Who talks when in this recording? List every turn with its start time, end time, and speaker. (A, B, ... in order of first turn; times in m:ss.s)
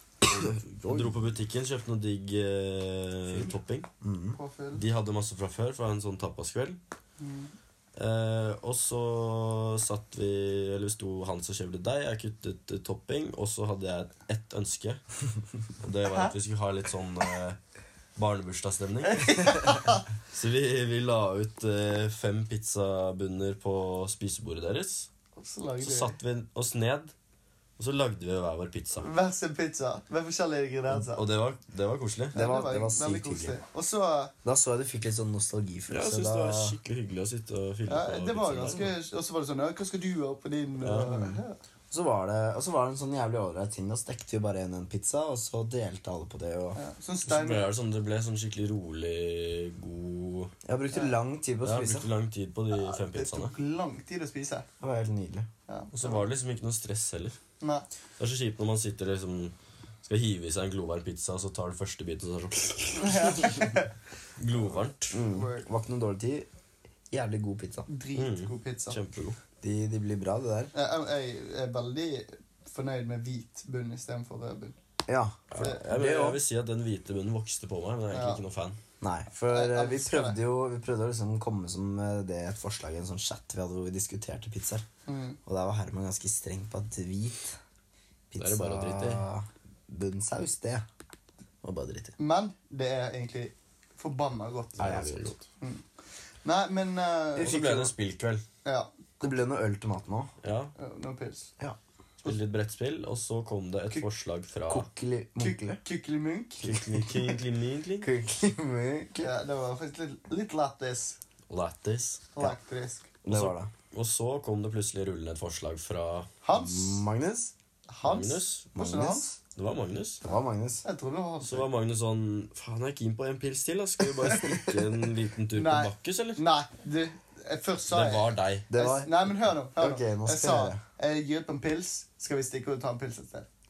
0:00.3-0:03.9 A
0:00.8-0:01.1 B
0:04.0-0:04.4 B
0:04.4-0:04.8 C
0:04.7-0:06.8 A
0:07.2-0:07.5 C
0:08.0-0:15.0 A
0:15.8-0:17.6 A
0:18.2-0:19.6 A
0:19.0-0:20.0 C
0:20.3-0:25.1 A
0:25.4-0:26.2 C
0:25.8-0:27.1 A
0:27.8-0:29.1 A
0:29.0-0:31.2 C
0:31.1-0:32.3 A
0:32.3-0:33.6 B
0:32.3-0:34.3 C
0:34.4-0:36.8 B
0:35.9-0:38.9 A
0:37.8-0:41.6 C
0:40.8-0:41.2 A
0:41.0-0:46.8 B
0:46.7-0:47.7 C
0:47.2-0:50.5 A
0:50.6-0:52.1 B
0:51.6-0:53.6 A
0:52.7-0:54.7 C
0:54.8-0:55.5 B
0:55.7-0:56.2 C
0:55.9-0:57.4 A
0:57.6-0:57.8 C
0:58.2-1:03.7 A
1:02.9-1:03.9 C
1:04.4-1:05.2 A
1:05.1-1:06.5 B
1:05.3-1:05.6 C
1:07.1-1:07.9 B
1:07.9-1:09.0 C
1:08.1-1:09.4 A
1:09.6-1:10.7 B
1:10.7-1:14.8 C
1:15.0-1:16.4 B
1:15.5-1:18.8 A
1:18.1-1:18.4 C
1:19.0-1:24.8 B
1:19.4-1:20.4 C
1:25.0-1:25.4 C
1:25.4-1:27.6 B
1:28.3-1:30.8 B
1:28.4-1:29.2 A
1:31.6-1:32.1 B
1:32.2-1:35.0 C
1:34.8-1:35.4 A
1:34.8-1:35.3 B
1:35.6-1:35.8 C
1:36.4-1:37.9 C
1:37.4-1:38.4 A
1:38.6-1:38.9 C
1:39.2-1:40.3 B
1:40.4-1:40.7 A
1:40.8-1:41.5 C
1:42.2-1:44.9 A
1:44.7-1:45.8 B
1:45.4-1:46.8 C
1:46.6-1:48.1 A
1:48.0-1:49.3 B
1:49.2-1:51.2 C
1:51.5-1:52.3 A
1:52.3-1:53.1 C
1:53.2-1:53.7 B
1:53.3-1:56.3 A
1:56.4-1:57.1 C
1:56.5-1:57.5 B
1:57.9-1:59.3 C
1:58.0-1:58.7 A
1:58.7-1:59.4 B
1:59.5-2:00.2 A
2:00.2-2:00.8 B
2:00.8-2:01.7 C
2:01.4-2:06.4 A
2:04.2-2:04.8 C
2:05.5-2:13.5 C
2:07.9-2:08.7 A
2:08.7-2:09.1 B
2:09.8-2:10.8 B